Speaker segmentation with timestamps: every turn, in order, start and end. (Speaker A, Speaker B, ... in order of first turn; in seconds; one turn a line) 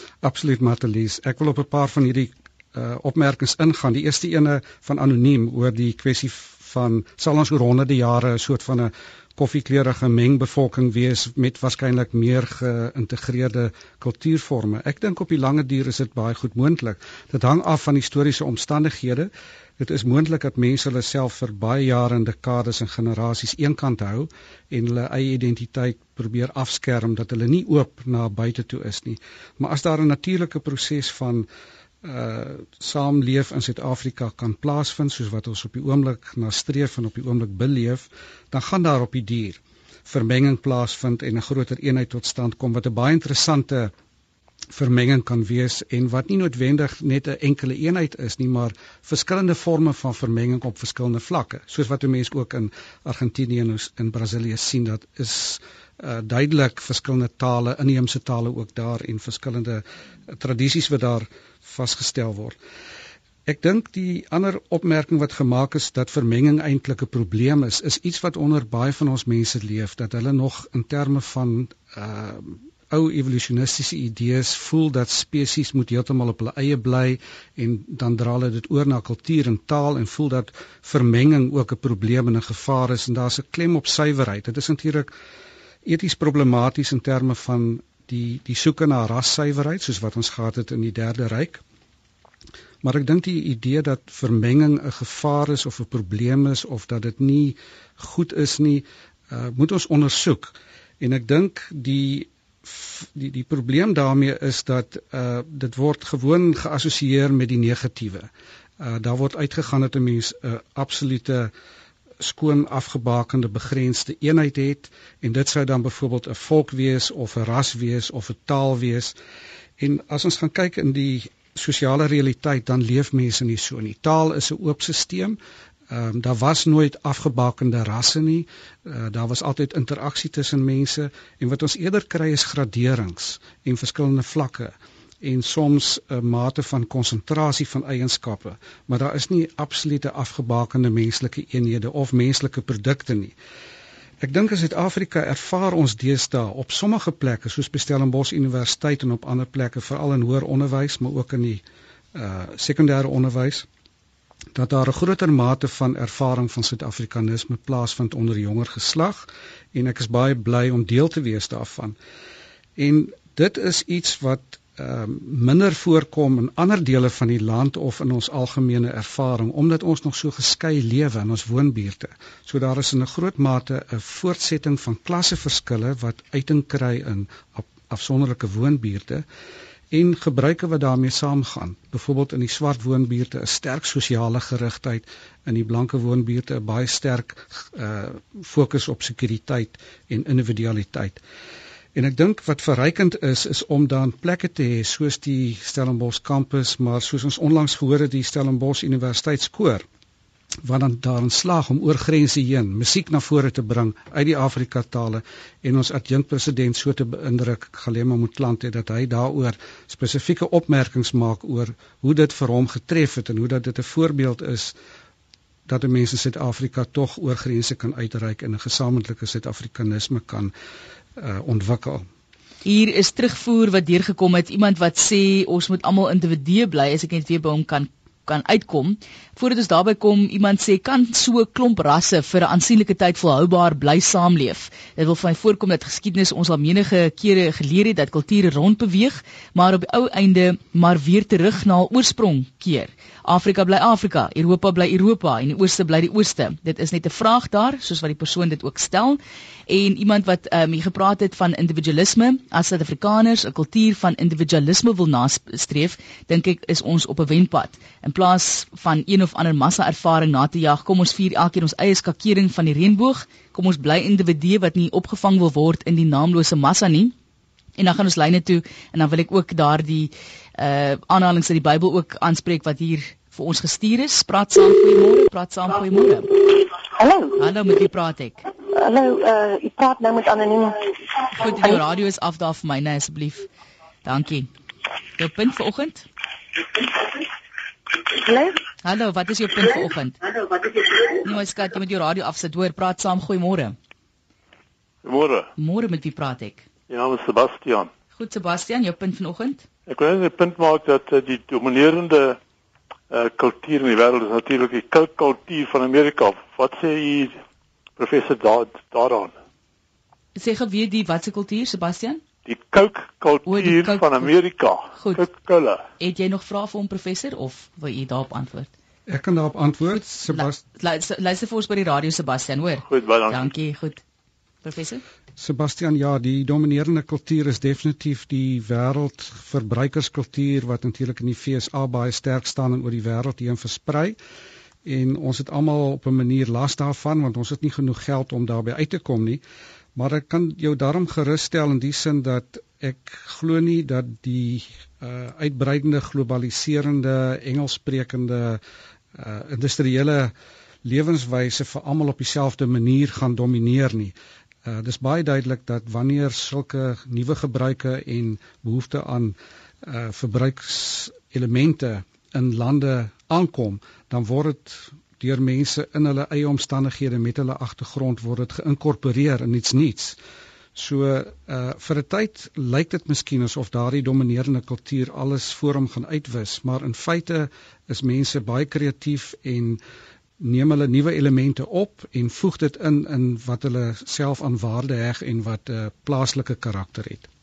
Speaker A: 0.2-31.5
Speaker A: 32.0-43.9
Speaker A: 44.7-62.6
Speaker A: 63.5-85.1
Speaker A: 85.8-91.6
Speaker A: 92.8-111.5
Speaker A: 112.2-119.2
Speaker A: 119.8-143.3
Speaker A: 144.2-151.6
Speaker A: 152.1-153.7
Speaker A: 154.5-162.0
Speaker A: 162.8-179.2
Speaker A: 179.9-191.2
Speaker A: 191.9-199.8
Speaker A: 200.6-214.8
Speaker A: 215.7-220.5
Speaker A: 221.2-222.1
Speaker B: 222.6-267.1
Speaker B: 267.8-276.4
Speaker C: 277.0-277.4
Speaker B: 277.4-278.4
Speaker C: 278.7-280.8
Speaker B: 281.4-283.5
Speaker C: 281.5-281.8
Speaker B: 284.1-284.5
Speaker B: 285.2-286.1
Speaker C: 288.2-288.6
Speaker B: 288.8-290.2
Speaker B: 291.1-293.8
Speaker D: 295.0-295.5
Speaker B: 295.6-296.6
Speaker D: 296.9-297.9
Speaker B: 298.2-299.6
Speaker D: 299.9-302.4
Speaker D: 303.1-307.4
Speaker D: 308.0-309.3
Speaker B: 310.4-312.2
Speaker D: 312.5-315.8
Speaker B: 313.5-314.3
Speaker B: 315.0-315.2
Speaker B: 316.0-318.7
Speaker A: 319.1-320.6
Speaker B: 320.3-324.0
Speaker D: 322.9-323.5
Speaker B: 324.6-325.0
Speaker A: 325.4-334.2
Speaker A: 334.9-339.4
Speaker A: 339.9-348.6
Speaker A: 349.1-350.3
Speaker A: 350.8-370.2
Speaker A: 370.8-379.8
Speaker A: 380.4-387.3